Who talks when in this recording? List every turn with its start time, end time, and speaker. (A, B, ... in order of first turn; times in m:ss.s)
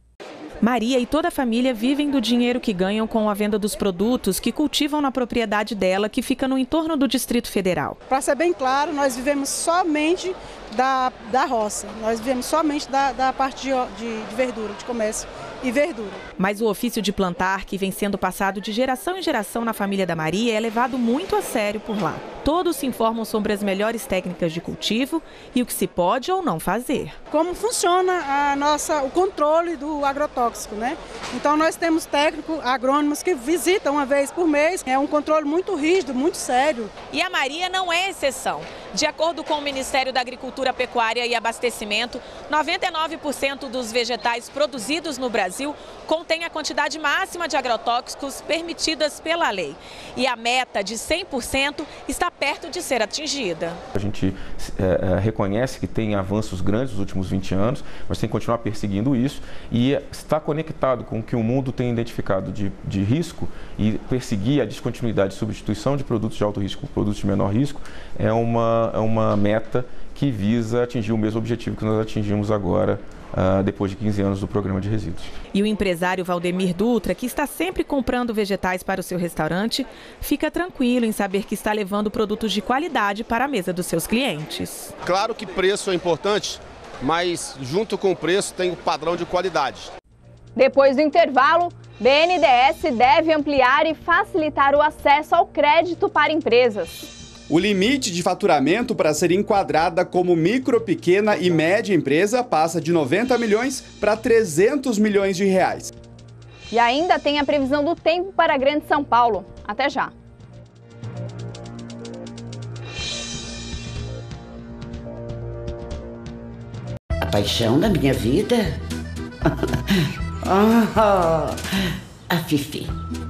0:00.6-0:08.0 A
0:08.1-0:16.2 B
0:16.4-0:27.2 A
0:27.3-0:36.9 B
0:37.1-0:53.8 A
0:53.9-1:15.3 C
1:15.5-1:24.9 A
1:25.0-1:29.9 D
1:30.6-1:37.0 E
1:37.5-1:45.9 F
1:46.7-1:50.1 E
1:57.2-1:58.7 G
2:00.4-2:01.6 G
2:02.3-2:02.9 G